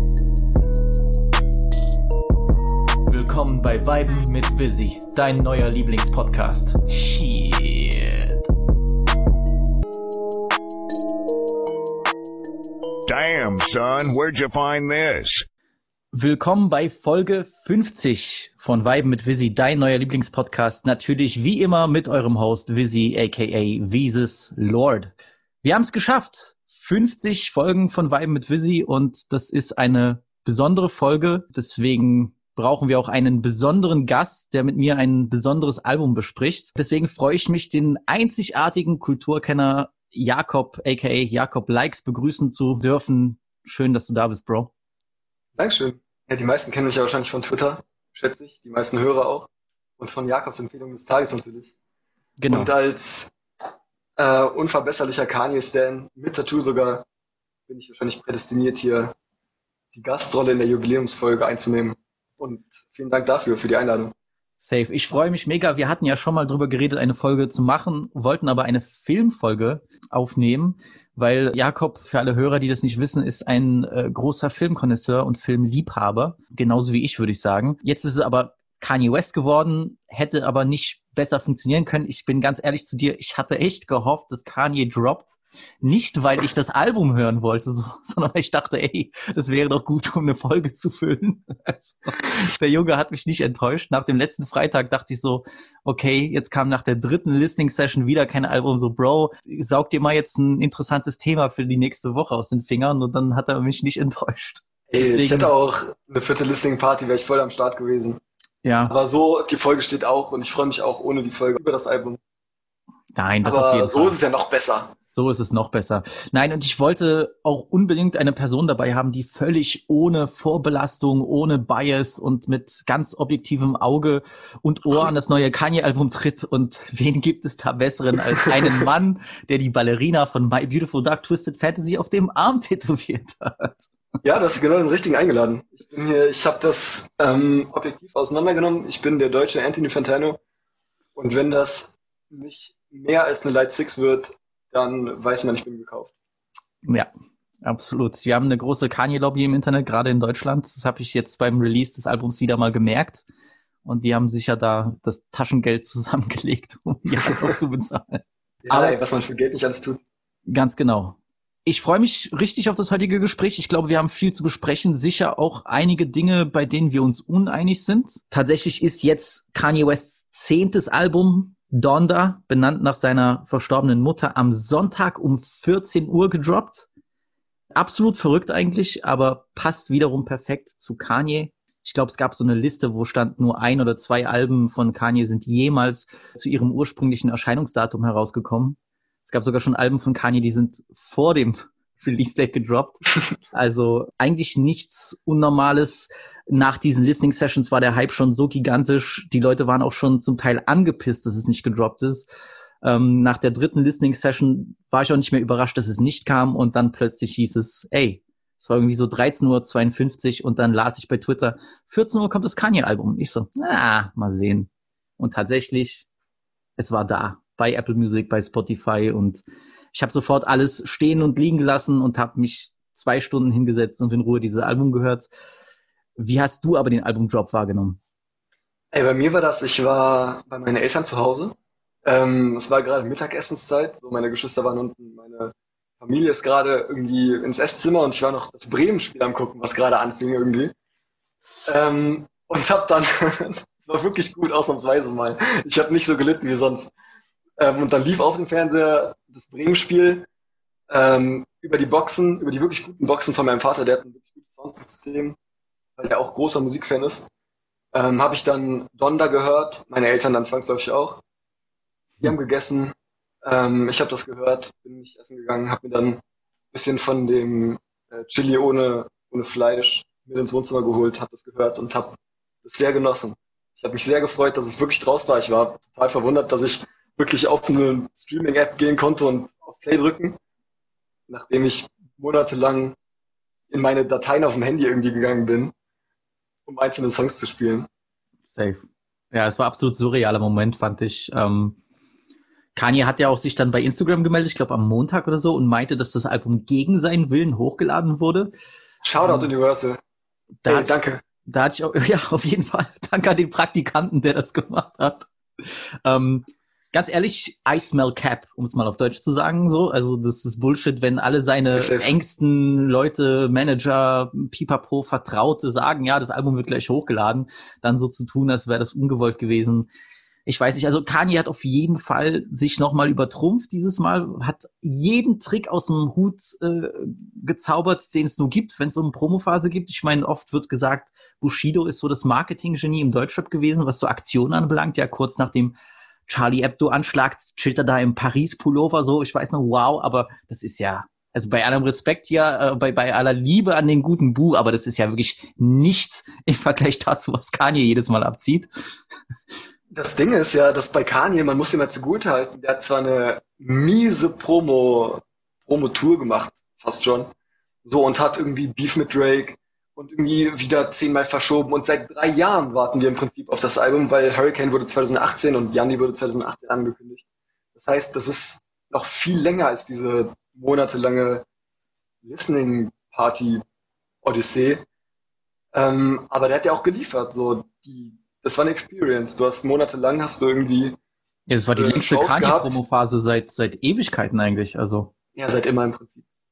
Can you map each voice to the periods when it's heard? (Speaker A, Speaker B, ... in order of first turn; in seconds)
Speaker A: 3.1-8.4, 16.1-44.7, 52.4-52.7, 64.6-105.5, 108.6-108.9, 113.1-114.2, 115.1-133.9, 146.8-147.1, 147.6-153.2, 153.8-159.0, 160.5-176.9, 177.7-202.2, 202.8-216.0, 216.8-225.3, 226.2-228.0, 288.5-291.8, 292.8-298.5, 299.2-299.5, 300.6-305.3, 306.0-319.9, 320.4-335.8, 336.3-348.7, 381.5-385.1
Speaker B: 13.1-15.4
Speaker C: 45.5-51.7, 52.5-53.3, 54.2-57.0, 57.7-59.1, 59.9-64.1, 104.9-108.2, 108.9-112.2, 113.4-114.9, 128.3-128.8, 134.2-140.4, 141.2-146.1, 157.2-157.5, 158.6-160.0, 228.9-240.7, 241.6-246.9, 247.6-250.3, 250.9-255.4, 256.0-257.3, 257.9-261.2, 262.2-266.2, 266.7-280.4, 281.3-282.9, 283.7-285.7, 286.7-287.9, 299.0-300.0, 300.6-301.2, 311.7-312.1, 349.9-357.3, 357.8-367.2, 367.7-371.4, 372.2-373.6, 374.2-374.8, 375.7-381.0, 381.7-382.8, 385.4-386.2